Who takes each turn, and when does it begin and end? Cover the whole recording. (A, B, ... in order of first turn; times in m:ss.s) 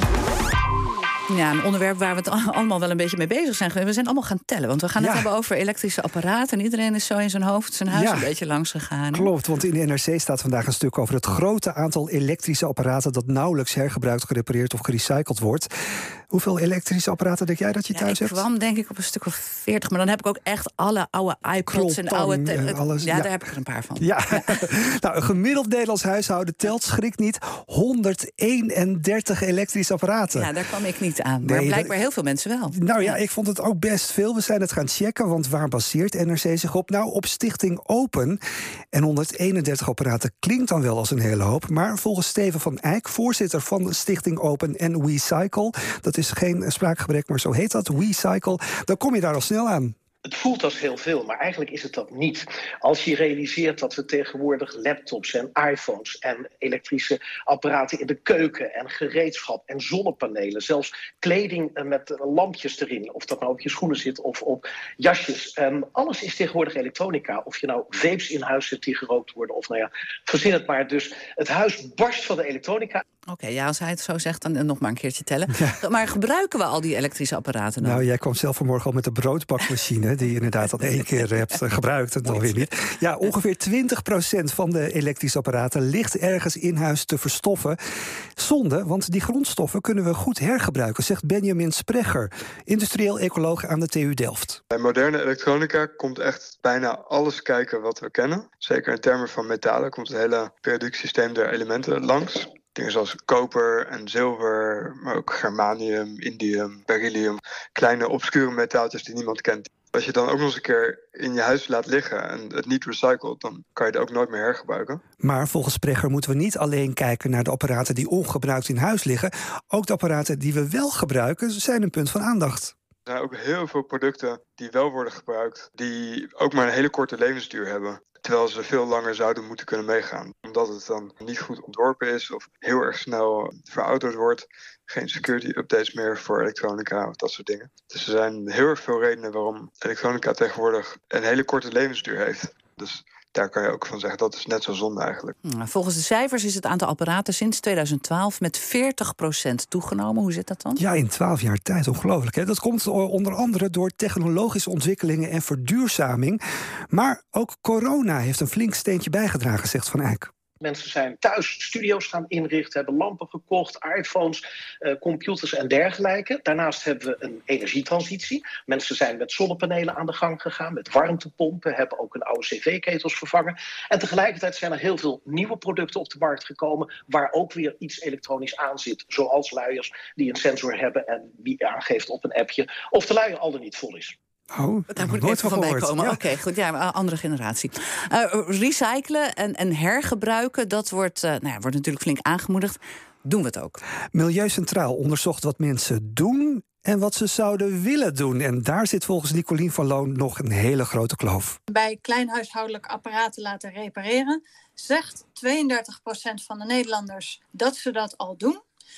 0:01.3-0:09.3 A
0:05.0-0:05.3 B
0:07.9-0:08.3 B
0:09.1-0:15.7 B
0:16.3-0:18.5 B
0:17.9-0:24.6 A
0:21.7-0:23.3 B
0:24.0-0:30.5 B
0:30.3-0:33.2 A
0:31.4-0:32.0 B
0:32.7-0:38.4 B
0:38.9-0:49.9 B
0:50.2-1:13.0 C
1:13.3-1:18.0 A
1:15.5-1:15.8 B
1:17.8-1:27.8 B
1:22.2-1:22.7 A
1:28.4-1:34.6 B
1:34.7-1:55.0 D
1:55.2-2:02.7 B
2:03.1-2:25.4 D
2:25.4-2:30.8 A
2:30.8-2:36.4 B
2:36.9-2:40.3 B
2:40.6-3:04.2 C
3:04.5-3:06.2 B
3:04.9-3:13.8 A
3:14.1-3:21.6 B
3:21.7-3:28.6 E